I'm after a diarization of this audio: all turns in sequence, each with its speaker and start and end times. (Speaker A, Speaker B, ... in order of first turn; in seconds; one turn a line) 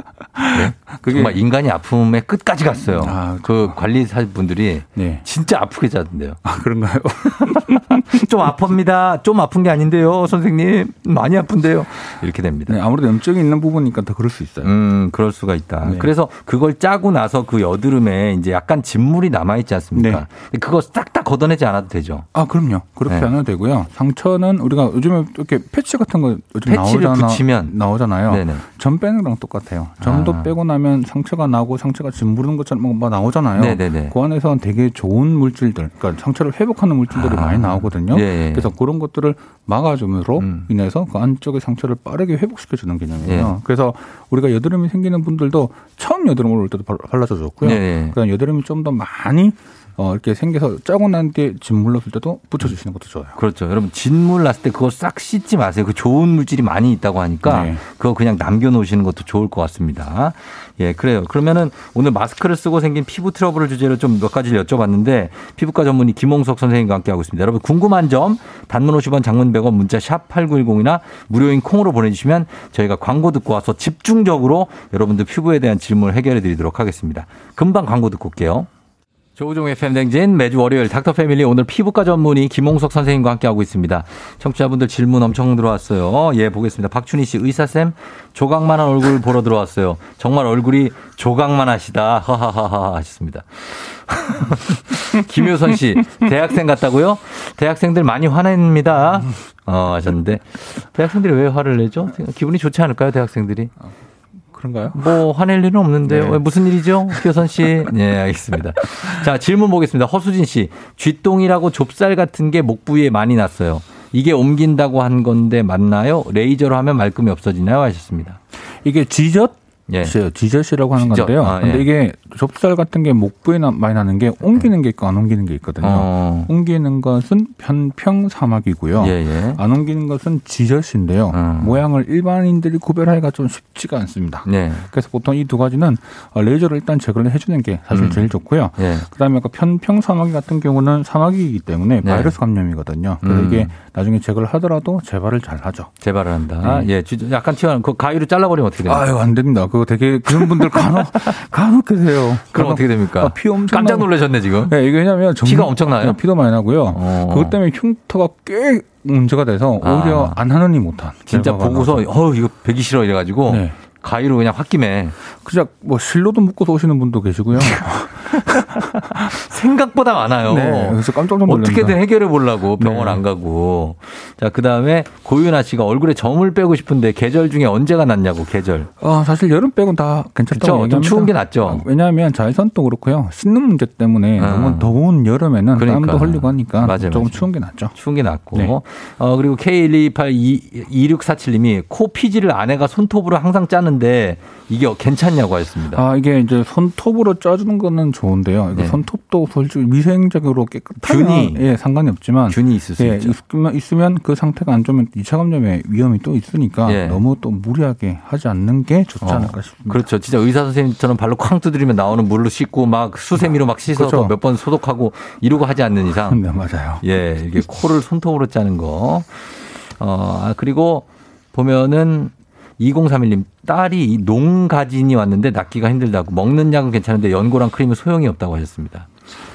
Speaker A: 0.3-1.4
Speaker B: 0.5-6.4
Speaker A: 2.9-3.8
Speaker A: 5.0-5.2
Speaker A: 6.4-8.3
Speaker B: 7.2-12.8
Speaker A: 12.7-14.7
Speaker B: 14.6-22.3
Speaker A: 15.8-16.1
Speaker A: 19.9-20.2
Speaker A: 22.3-53.4
Speaker B: 26.6-28.6
Speaker B: 30.0-30.5
Speaker B: 33.5-34.1
Speaker B: 37.1-38.7
Speaker B: 40.4-40.7
Speaker B: 43.2-43.5
Speaker B: 47.6-48.1
Speaker B: 53.4-78.7
Speaker A: 57.4-57.8
Speaker B: 79.3-103.7
Speaker A: 104.5-105.2
Speaker B: 104.9-118.4
Speaker A: 106.1-106.4
Speaker A: 118.8-145.9
Speaker B: 119.9-120.2
Speaker B: 121.0-121.9
Speaker B: 125.8-126.5
Speaker B: 129.0-129.6
Speaker B: 131.3-131.8
Speaker B: 134.4-134.9
Speaker B: 137.9-138.2
Speaker B: 138.8-139.1
Speaker B: 142.0-142.3
Speaker B: 143.2-143.7
Speaker B: 146.0-149.1
Speaker A: 146.6-146.9
Speaker A: 148.8-162.1
Speaker B: 150.3-151.3
Speaker B: 152.5-154.7
Speaker B: 155.4-156.2
Speaker B: 156.9-157.6
Speaker B: 159.8-160.4
Speaker B: 161.3-165.2
Speaker A: 163.5-163.8
Speaker A: 165.4-169.3
Speaker B: 168.3-178.9
Speaker A: 170.4-172.0
Speaker A: 172.8-173.2
Speaker A: 179.0-187.9
Speaker B: 180.5-181.8
Speaker B: 184.4-185.0
Speaker B: 185.7-196.0
Speaker A: 195.9-210.1
Speaker B: 198.7-199.0
Speaker B: 201.0-201.6
Speaker B: 202.5-203.3
Speaker B: 206.8-207.2
Speaker B: 209.2-216.4
Speaker A: 213.8-214.3
Speaker A: 216.3-217.0
Speaker B: 217.0-229.1